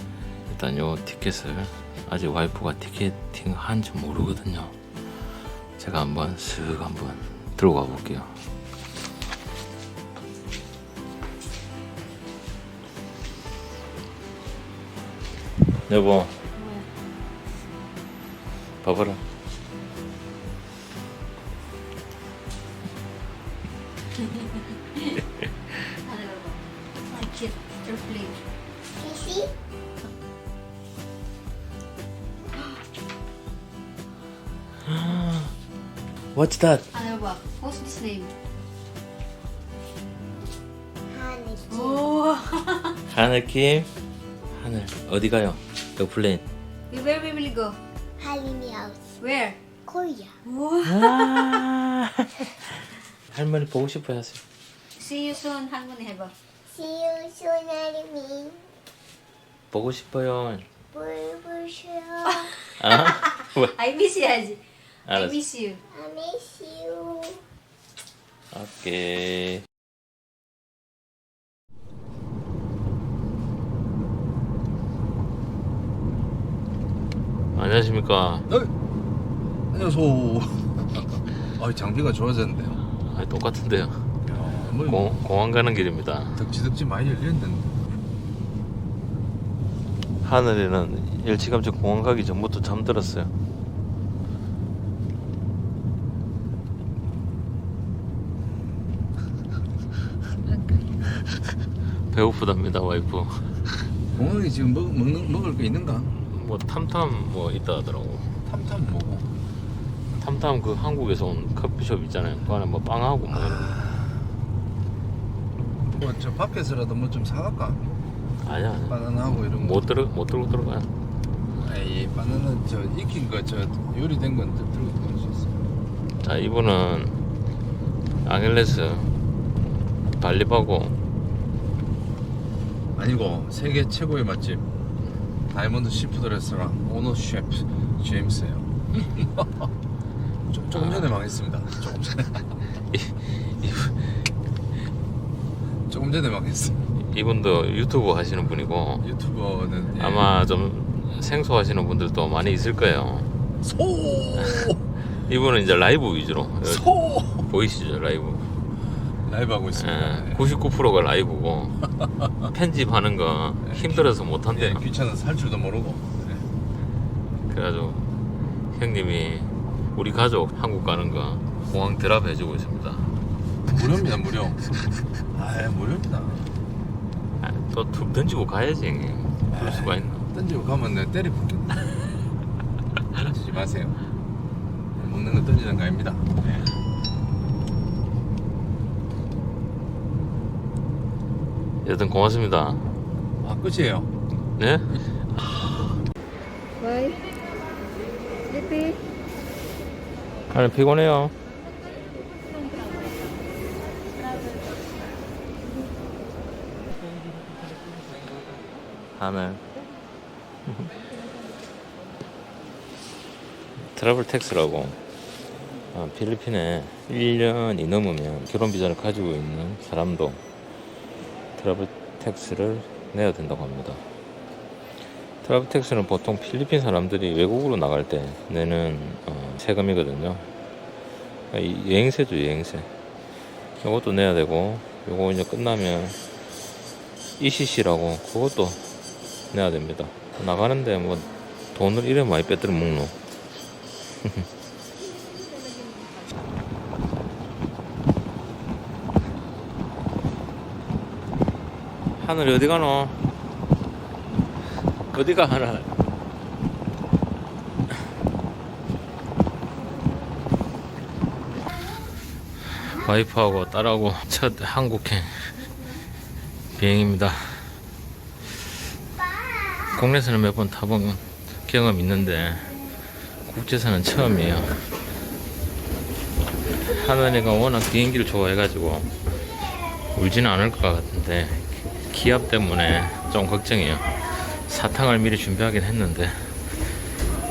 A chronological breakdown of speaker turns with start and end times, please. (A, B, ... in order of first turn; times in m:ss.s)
0:00.5-0:04.7 A
0:05.8-0:08.3 A
0:15.9-0:16.4 A
0:16.6-0:16.9 B
0:18.8-0:19.2 A
0:24.2-0:25.2 B
0:26.0-0:28.4 B
0:29.0-0:29.5 C
0:34.9-0:35.5 A
0:36.4-0:36.8 A
0:36.9-0:38.3 B
0:41.1-0:42.0 C
0:41.7-0:43.0 B
0:43.1-0:43.9 A
0:44.5-0:46.4 A
0:46.9-0:47.8 B
0:48.2-0:49.2 C
0:49.2-0:49.6 B
0:49.9-0:50.4 C
0:50.4-0:51.5 B
0:50.8-0:52.5 A
0:53.3-0:54.4 A
0:55.0-0:56.3 B
0:56.7-0:58.7 C
0:59.7-1:00.7 A
1:00.9-1:02.5 C
1:02.3-1:05.8 B
1:02.8-1:03.7 A
1:05.1-1:05.4 A
1:05.9-1:07.4 C
1:08.5-1:09.6 A
1:17.6-1:18.5 A
1:19.7-1:22.8 D
1:23.0-1:24.0 A
1:24.2-1:25.1 D
1:24.8-1:26.4 A
1:26.4-1:27.7 D
1:30.2-1:33.3 A
1:40.4-1:41.2 B
1:42.1-1:43.5 A
1:44.1-1:46.1 D
1:46.3-1:48.4 A
1:48.4-1:49.3 D
1:50.1-1:53.8 A
1:53.3-1:54.3 D
1:55.9-1:57.8 D
1:58.4-2:00.9 A
1:58.9-1:59.9 D
2:01.6-2:05.6 D
2:06.2-2:07.2 A
2:08.2-2:09.2 A
2:10.2-2:11.0 A
2:13.0-2:14.7 D
2:15.5-2:19.7 D
2:20.5-2:22.5 D
2:20.7-2:21.2 A
2:22.9-2:24.2 A
2:25.9-2:26.8 D
2:27.0-2:29.0 A
2:29.0-2:30.3 D
2:30.0-2:33.3 A
2:33.6-2:34.8 D
2:34.3-2:38.5 A
2:36.7-2:37.4 D
2:39.2-2:40.5 D
2:39.8-2:41.9 A
2:42.4-2:44.8 A
2:43.6-2:46.4 D
2:47.4-2:48.1 A
2:48.7-2:53.1 A
2:53.7-2:54.7 D
2:55.3-2:56.5 D
2:57.4-3:00.3 A
2:59.5-3:02.0 D
3:03.2-3:04.0 D
3:05.0-3:06.7 D
3:11.8-3:12.8 A
3:13.4-3:14.1 D
3:14.6-3:14.9 A
3:16.8-3:17.2 B
3:18.5-3:19.0 B
3:20.5-3:21.3 A
3:29.2-3:29.6 A
3:33.9-3:35.0 A
3:35.9-3:40.4 A
3:41.6-3:44.0 A
3:45.4-3:50.5 A
3:51.5-3:52.9 A
3:53.8-3:56.2 A
3:57.4-3:58.8 A
3:59.5-4:03.2 A
4:12.2-4:13.2 A
4:15.1-4:15.9 A
4:22.8-4:25.6 A
4:26.8-4:27.7 A
4:29.9-4:32.8 A
4:33.5-4:34.8 A
4:36.8-4:39.1 A
4:40.2-4:46.6 A